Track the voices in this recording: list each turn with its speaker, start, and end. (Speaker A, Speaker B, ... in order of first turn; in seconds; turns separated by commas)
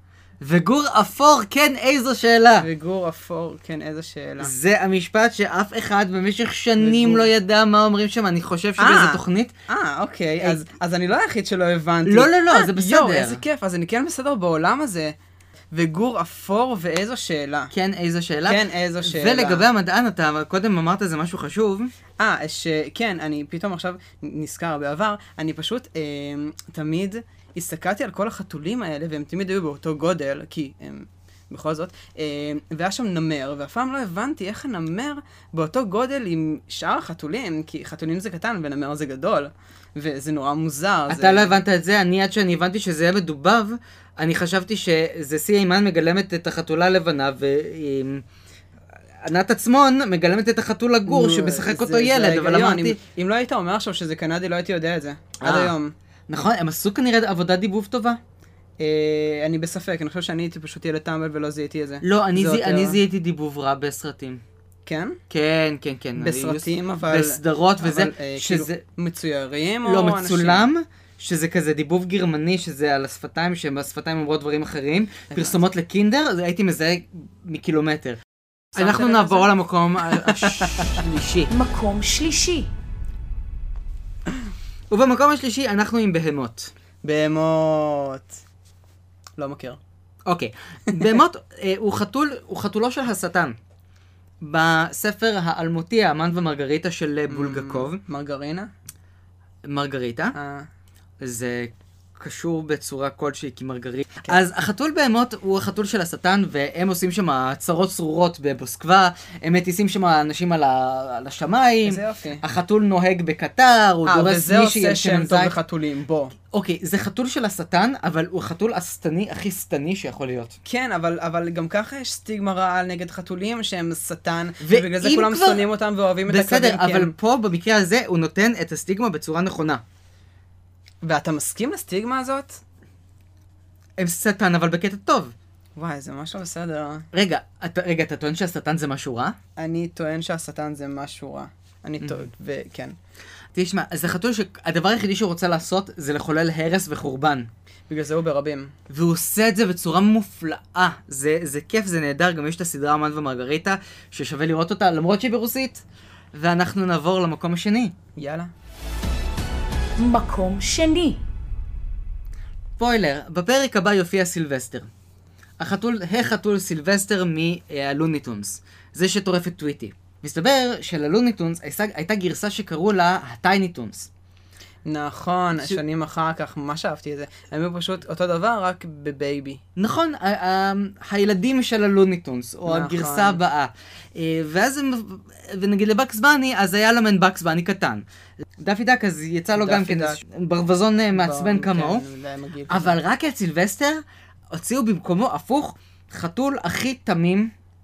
Speaker A: 0.4-2.7, Speaker B: 2.6-4.5, Speaker A: 4.4-9.5, Speaker B: 6.8-7.3, Speaker B: 8.8-15.1, Speaker A: 12.0-13.4, Speaker B: 15.7-17.7, Speaker A: 17.7-21.9, Speaker B: 18.4-19.6, Speaker B: 22.2-41.6, Speaker A: 41.1-48.2, Speaker A: 49.2-53.0, Speaker B: 51.0-55.9, Speaker A: 55.4-55.7, Speaker A: 56.3-58.2, Speaker B: 58.8-63.0, Speaker A: 62.0-64.4, Speaker B: 64.8-65.2, Speaker A: 65.3-68.8, Speaker B: 66.2-70.7, Speaker A: 69.8-78.2, Speaker B: 75.3-75.6, Speaker B: 78.7-79.5, Speaker A: 78.7-81.5, Speaker B: 80.2-81.0, Speaker C: 81.5-82.7, Speaker A: 84.9-86.7, Speaker B: 87.0-88.4, Speaker B: 89.4-89.8, Speaker A: 90.3-93.5, Speaker A: 94.4-98.0, Speaker B: 97.3-98.7, Speaker A: 99.6-100.3, Speaker B: 100.3-100.7, Speaker A: 101.2-115.5, Speaker B: 111.8-112.4, Speaker B: 114.0-116.3, Speaker A: 116.5-120.6, Speaker B: 120.6-127.1, Speaker A: 124.6-125.7, Speaker A: 126.3-129.8, Speaker B: 131.0-132.6, Speaker A: 134.0-135.3, Speaker B: 135.8-137.1, Speaker A: 137.1-139.3, Speaker B: 139.6-142.9, Speaker A: 143.5-147.5, Speaker B: 147.9-148.7, Speaker A: 148.9-155.8, Speaker A: 156.3-157.9, Speaker B: 158.2-158.5, Speaker C: 160.0-161.2, Speaker A: 162.8-164.9, Speaker A: 165.6-174.1, Speaker B: 174.8-179.6, Speaker A: 179.8-188.0, Speaker B: 182.7-183.4, Speaker A: 188.6-192.0, Speaker B: 189.6-190.2, Speaker B: 191.1-193.0, Speaker A: 192.7-197.5